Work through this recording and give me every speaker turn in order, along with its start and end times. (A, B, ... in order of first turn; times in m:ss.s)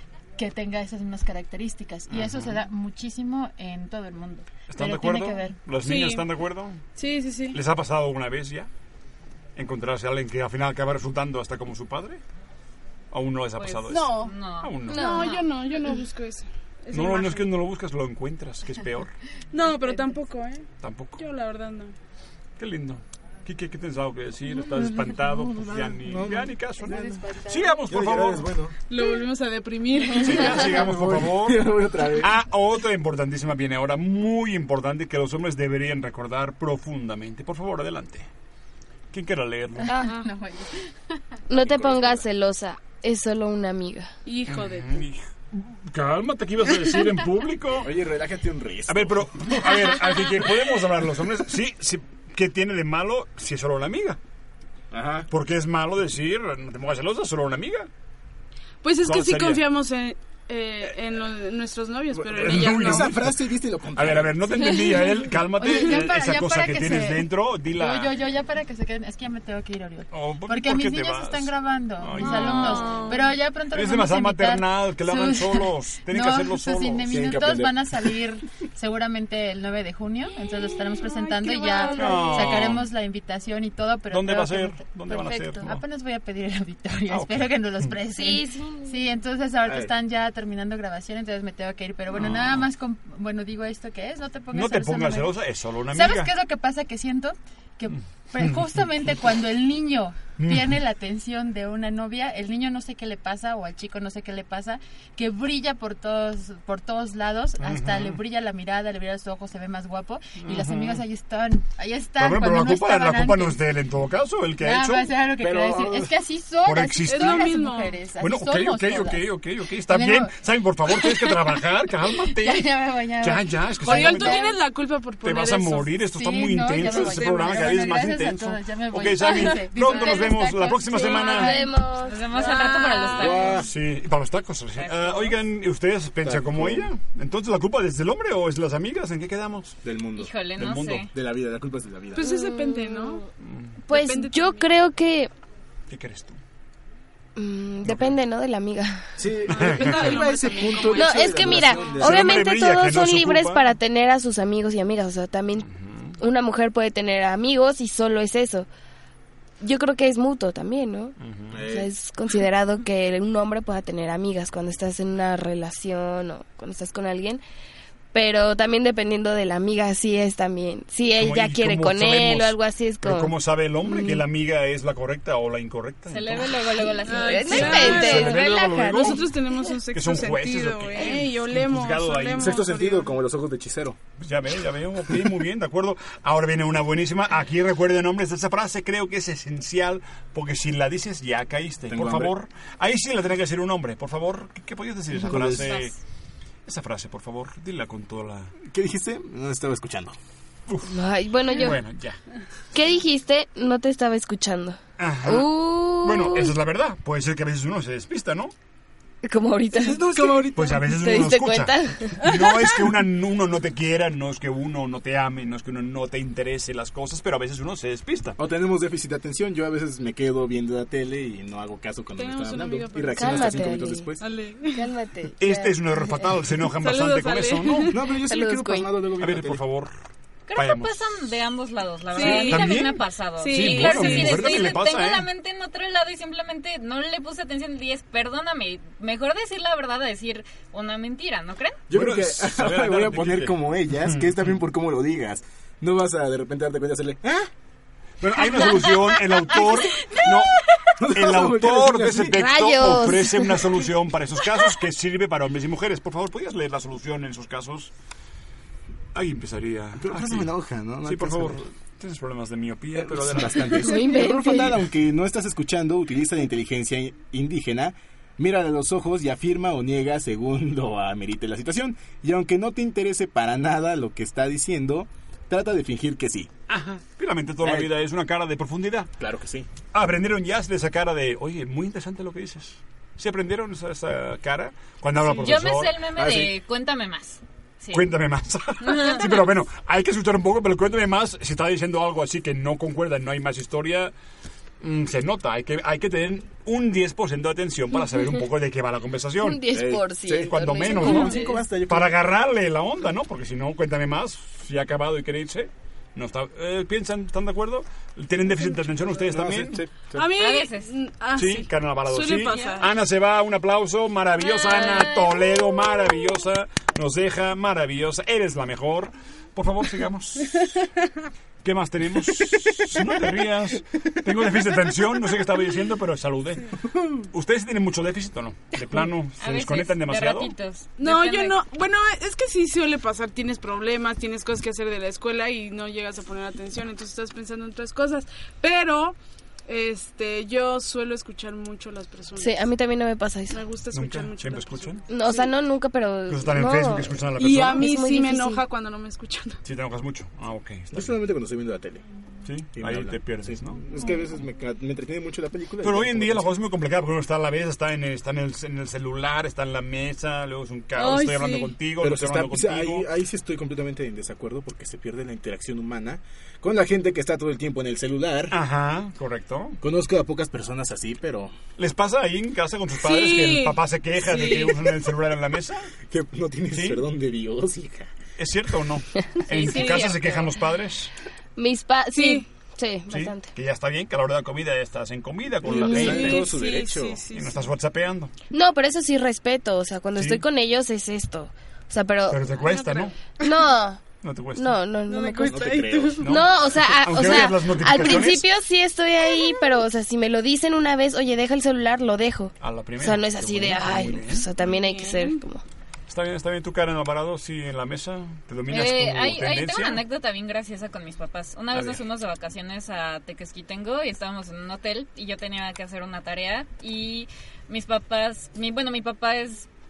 0:00.4-0:05.6 A
0:02.1-0:02.6 B
0:04.7-0:06.8 B
0:05.8-0:06.3 C
0:06.9-0:07.6 C
0:07.5-0:08.7 B
0:09.6-0:12.2 B
0:13.1-0:15.1 B
0:13.6-0:15.3 D
0:13.8-0:14.3 C
0:14.9-0:15.4 E
0:14.9-0:17.5 C
0:16.9-0:19.1 B
0:19.5-0:20.6 C
0:19.6-0:20.2 A
0:20.8-0:21.2 B
0:21.2-0:21.9 C
0:22.6-0:28.5 B
0:25.3-0:27.3 F
0:26.8-0:27.8 A
0:27.9-0:28.8 F
0:28.9-0:30.8 C
0:30.1-0:38.3 B
0:30.4-0:32.3 F
0:39.1-0:39.9 B
0:40.0-0:40.9 A
0:41.5-0:44.1 E
0:41.6-0:42.2 F
0:44.2-0:45.0 C
0:44.5-0:47.9 B
0:47.8-0:49.6 F
0:48.9-0:54.2 B
0:54.9-0:55.3 F
0:55.3-0:57.9 B
0:58.8-1:03.1 C
0:59.0-0:59.6 B
1:02.1-1:04.4 F
1:02.4-1:03.4 B
1:03.9-1:08.1 B
1:05.5-1:35.4 A
1:10.1-1:13.0 B
1:13.7-1:17.1 B
1:17.1-1:18.1 F
1:21.2-1:22.5 E
1:21.9-1:22.9 B
1:24.1-1:25.8 B
1:25.1-1:25.7 E
1:27.1-1:27.5 B
1:28.1-1:28.9 E
1:29.6-1:29.9 F
1:32.1-1:32.6 B
1:34.5-1:36.3 B
1:35.9-1:53.6 A
1:38.4-1:38.8 B
1:40.4-1:40.8 B
1:47.6-1:48.2 B
1:50.4-1:51.0 B
1:52.2-1:55.1 B
1:54.6-2:00.3 A
1:55.4-1:56.2 F
1:56.6-1:57.5 B
1:57.1-1:58.0 C
1:58.2-2:02.6 B
2:00.9-2:04.6 A
2:03.2-2:04.4 B
2:03.8-2:05.9 C
2:05.2-2:11.5 B
2:06.0-2:11.6 A
2:07.0-2:07.5 C
2:11.3-2:12.2 E
2:12.0-2:13.7 D
2:12.3-2:13.6 C
2:13.1-2:13.7 F
2:13.6-2:19.8 B
2:14.8-2:15.4 D
2:16.2-2:16.9 F
2:19.8-2:20.3 F
2:20.2-2:21.1 D
2:20.6-2:21.1 B
2:21.1-2:22.2 F
2:22.1-2:23.2 C
2:22.2-2:23.2 E
2:23.4-2:23.8 B
2:23.8-2:25.3 E
2:23.9-2:24.7 C
2:25.9-2:26.4 B
2:27.4-2:29.1 E
2:27.8-2:28.2 B
2:29.2-2:32.6 F
2:29.4-2:32.1 C
2:29.5-2:30.1 B
2:31.0-2:35.7 E
2:32.0-2:33.6 B
2:35.8-2:36.1 B
2:36.2-2:38.7 E
2:39.6-2:41.1 E
2:41.2-2:41.6 B
2:41.5-2:41.9 F
2:41.7-2:47.4 E
2:48.1-2:54.2 E
2:51.2-2:56.6 B
2:56.1-2:58.2 D
2:56.6-2:59.2 E
2:57.0-3:03.2 C
2:57.5-2:59.3 B
2:59.9-3:02.6 B
3:02.4-3:04.0 F
3:04.2-3:15.9 B
3:11.9-3:12.3 F
3:15.2-3:15.7 F
3:15.6-3:15.9 D
3:16.6-3:18.5 B
3:18.7-3:20.1 F
3:20.7-3:20.9 B
3:20.9-3:21.8 E
3:21.5-3:22.2 B
3:22.7-3:26.5 E
3:25.0-3:28.5 B
3:29.2-3:32.2 E
3:29.7-3:30.9 F
3:30.5-3:38.4 B
3:32.2-3:32.5 C
3:38.4-3:44.2 F
3:42.1-3:44.9 C
3:43.1-3:44.1 E
3:44.7-3:45.8 E
3:45.4-3:48.0 B
3:46.6-3:48.0 C
3:47.9-3:49.6 F
3:48.2-3:48.9 E
3:49.2-3:49.9 B
3:50.5-4:01.8 D
3:50.5-3:51.0 B
3:52.1-3:52.9 C
3:52.1-3:55.3 B
3:53.4-3:54.7 C
4:01.9-4:07.5 F
4:01.9-4:04.5 B
4:08.2-4:17.9 B
4:11.0-4:12.4 F
4:12.3-4:13.7 E
4:19.1-4:20.5 B
4:20.0-4:21.6 F
4:21.0-4:23.9 B
4:22.9-4:36.5 F
4:23.8-4:24.8 E
4:36.7-4:39.1 B
4:37.6-4:37.9 F
4:39.2-4:39.7 F
4:39.9-4:46.0 B
4:45.2-4:48.1 D
4:46.2-4:46.5 F
4:47.9-4:54.1 B
4:48.8-4:49.3 D
4:54.8-4:59.6 B
4:59.4-5:01.5 E
4:59.7-5:02.3 F
5:00.4-5:09.8 B
5:01.0-5:01.5 C
5:09.2-5:10.3 F
5:10.1-5:12.9 C
5:10.4-5:10.9 D
5:11.3-5:20.7 B
5:21.6-5:26.7 B
5:27.3-5:30.5 B
5:29.4-5:31.6 D
5:31.0-5:39.2 C
5:39.7-5:42.6 C
5:42.4-5:43.6 E
5:43.5-5:45.5 C
5:43.9-5:45.0 B
5:45.1-5:47.2 E
5:46.3-5:47.9 B
5:47.4-5:49.6 C
5:47.8-5:48.6 E
5:49.6-5:51.2 B
5:50.9-5:52.0 F
5:52.4-5:53.8 B
5:52.7-5:56.5 F
5:55.8-6:03.1 B
6:01.0-6:01.8 C
6:02.0-6:08.6 F
6:08.5-6:09.8 B
6:09.8-6:11.5 F
6:11.8-6:15.9 B
6:13.0-6:15.0 C
6:16.1-6:18.1 F
6:16.7-6:17.0 B
6:18.4-6:21.1 B
6:19.5-6:20.4 D
6:19.6-6:20.1 C
6:21.6-6:23.5 E
6:22.1-6:22.5 C
6:23.1-6:26.5 B
6:25.6-6:27.2 F
6:25.7-6:26.2 E
6:25.9-6:27.6 C
6:27.3-6:28.3 B
6:28.5-6:32.5 E
6:30.2-6:30.4 B
6:32.3-6:33.1 B
6:32.7-6:33.5 C
6:33.4-6:34.0 E
6:34.2-6:34.8 B
6:34.6-6:45.6 E
6:35.0-6:36.3 C
6:35.4-6:36.3 F
6:36.2-6:38.5 B
6:39.3-6:39.6 C
6:42.6-6:44.5 B
6:44.6-6:45.4 C
6:46.1-6:50.0 B
6:48.7-6:59.7 D
6:51.7-6:52.0 B